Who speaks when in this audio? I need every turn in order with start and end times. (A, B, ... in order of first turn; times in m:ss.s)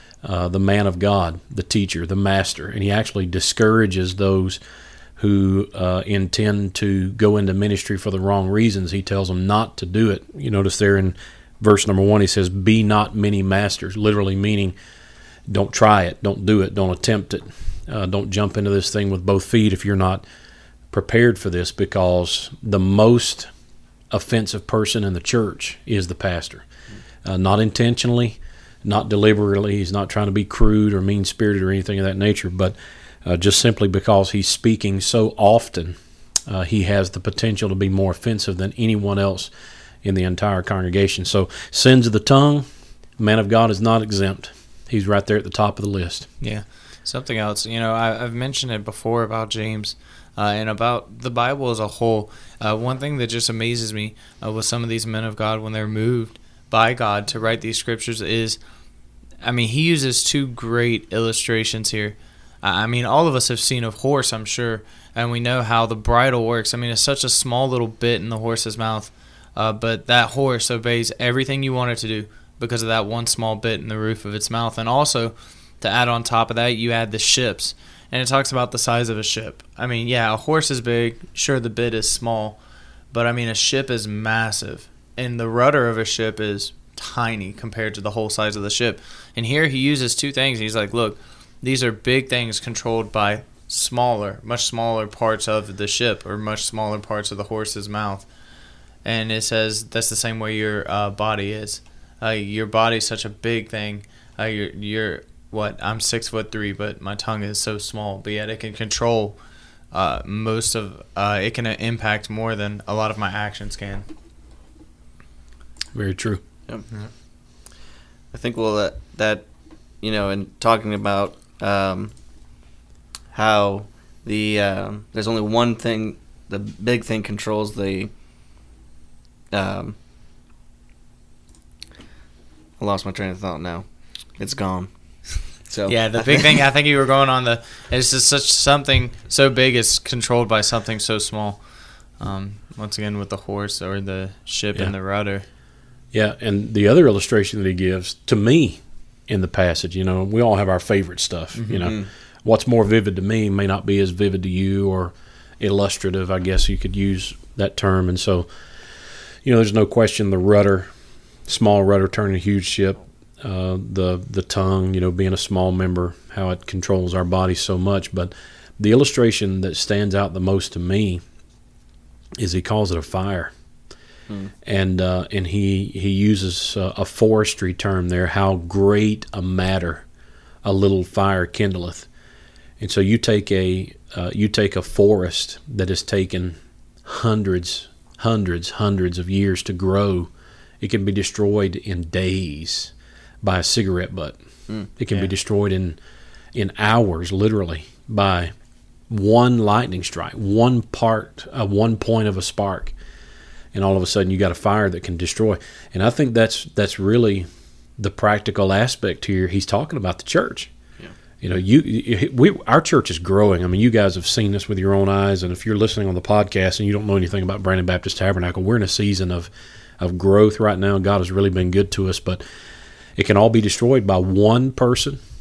0:00.2-0:04.6 A
0:05.2-0:14.8 A
0:15.5-0:20.2 A
0:20.9-0:23.5 A
0:24.1-0:26.7 A
0:27.2-0:36.0 A
0:36.5-0:39.5 A
0:40.0-0:42.7 A
0:43.2-0:46.3 A
0:46.4-0:58.6 B
0:59.4-1:22.6 B
1:23.1-1:38.3 B
1:39.0-1:49.4 B
1:49.9-1:54.1 B
1:55.9-1:56.4 A
1:58.3-2:02.2 C
2:03.3-2:08.1 C
2:09.5-2:10.0 C
2:12.8-2:16.5 C
2:15.9-2:25.4 B
2:26.1-2:38.5 A
2:31.5-2:31.9 B
2:31.8-2:32.1 C
2:39.4-2:40.9 A
2:41.4-2:51.2 A
2:52.4-2:53.5 A
2:54.6-3:00.1 A
3:00.6-3:02.1 A
3:02.8-3:10.3 A
3:10.8-3:16.0 A
3:16.6-3:18.5 A
3:19.1-3:22.9 A
3:23.7-3:27.5 A
3:28.0-3:30.7 A
3:31.4-3:42.4 A
3:43.2-3:45.2 A